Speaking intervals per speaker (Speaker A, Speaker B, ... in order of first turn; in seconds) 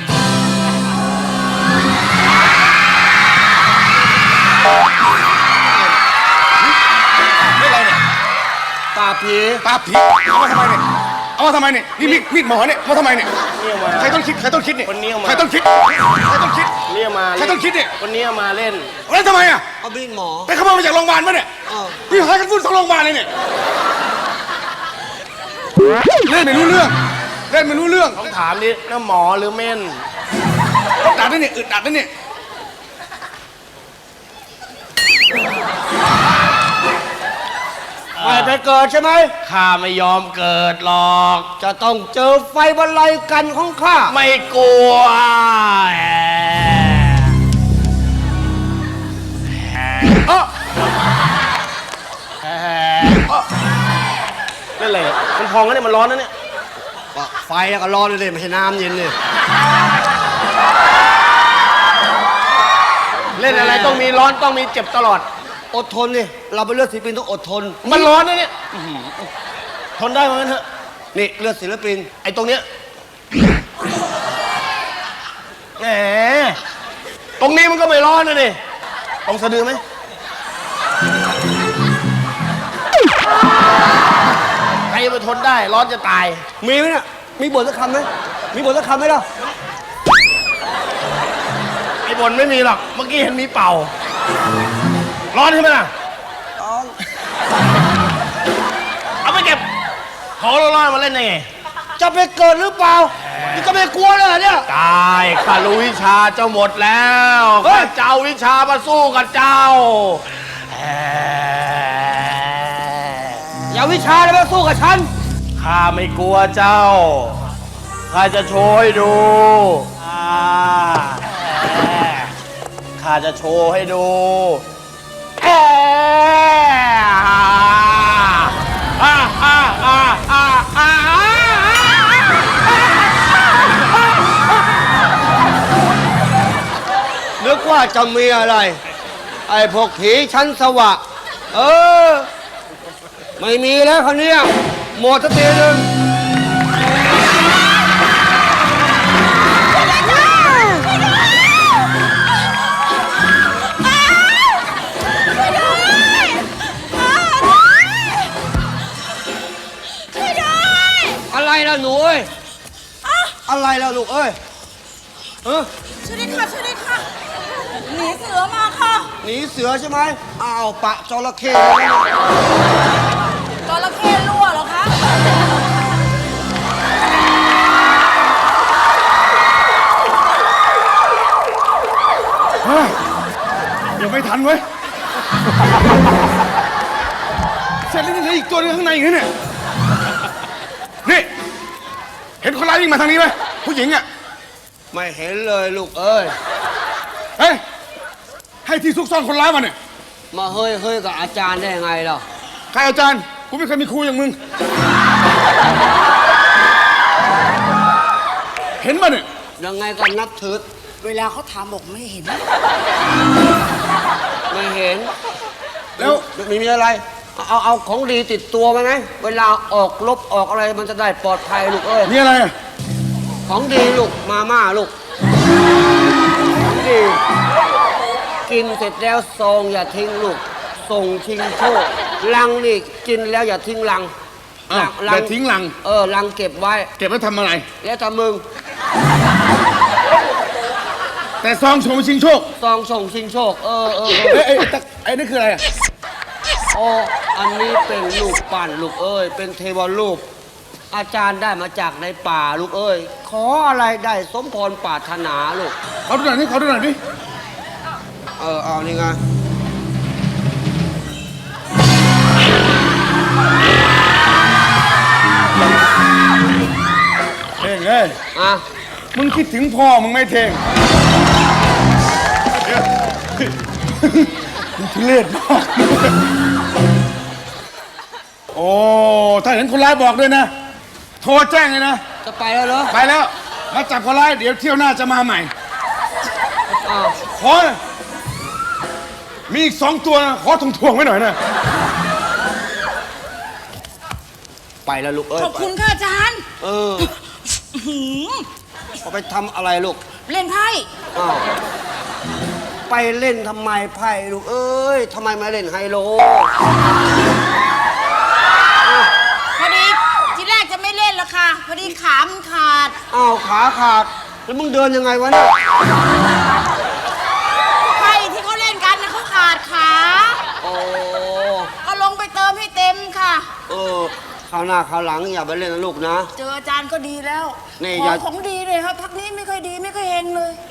Speaker A: 7.5-8.0, 9.6-10.8, 11.4-13.3, 13.9-16.8, 17.4-17.9, 19.1-19.6, 20.5-21.5, 22.1-23.3, 26.2-26.9, 27.5-28.2, 31.0-32.1, 182.6-182.9, 184.0-184.6, 187.9-189.3, 192.4-194.0, 198.6-199.7, 202.7-204.3, 208.8-209.2, 216.0-216.2, 222.1-222.5, 234.7-235.7, 237.0-237.7, 241.4-242.4, 244.1-245.6, 256.1-257.0, 267.6-268.2, 269.1-270.6, 272.6-272.9, 273.4-276.2, 278.5-280.5, 281.2-282.0, 282.9-285.5, 287.3-287.8, 289.5-291.4
Speaker B: 8.9-9.6, 19.8-20.5, 21.7-22.1, 38.2-39.3, 41.6-44.1, 57.1-59.1, 63.5-64.0, 65.7-68.1, 71.1-72.1, 86.6-89.2, 96.6-97.0, 102.0-104.7, 107.6-107.9, 113.7-115.1, 137.4-138.8, 139.5-141.0, 141.5-142.3, 143.4-145.9, 161.3-162.3, 163.4-164.4, 169.2-172.2, 194.9-196.3, 200.3-202.2, 209.6-210.6, 214.5-215.1, 216.0-222.1, 223.5-224.9, 226.6-227.2, 228.5-234.1, 234.7-236.9, 237.8-238.4, 242.6-244.4, 246.7-250.2, 250.9-255.7, 258.4-259.2, 268.3-268.6, 282.2-282.9, 286.7-287.2, 294.9-295.7, 296.6-297.1, 299.0-300.0, 301.1-301.4, 302.9-306.5, 308.8-309.1, 313.1-315.5, 320.6-321.7, 323.7-326.3, 327.8-328.2
Speaker C: 13.6-14.2, 14.8-15.5, 16.9-18.9, 28.1-30.0, 38.2-38.6, 39.4-41.5, 44.1-47.3, 49.9-50.3, 52.4-53.4, 54.8-56.3, 63.4-65.2, 67.8-69.3, 70.0-70.6, 72.2-72.7, 75.8-76.6, 77.4-78.6, 79.2-79.8, 84.9-86.4, 92.0-93.9, 95.3-95.9, 99.2-99.6, 100.4-101.5, 103.3-103.6, 104.7-113.4, 115.6-117.4, 118.1-122.3, 123.0-124.6, 125.4-132.6
Speaker D: 149.8-150.8, 153.7-154.6, 155.2-158.3, 160.1-161.2, 163.0-163.3, 166.0-167.1, 167.8-169.1, 173.7-174.9, 211.0-212.4, 295.4-296.4, 297.5-298.4, 300.2-300.9, 309.6-313.0, 317.8-320.4, 321.8-323.5, 326.3-330.6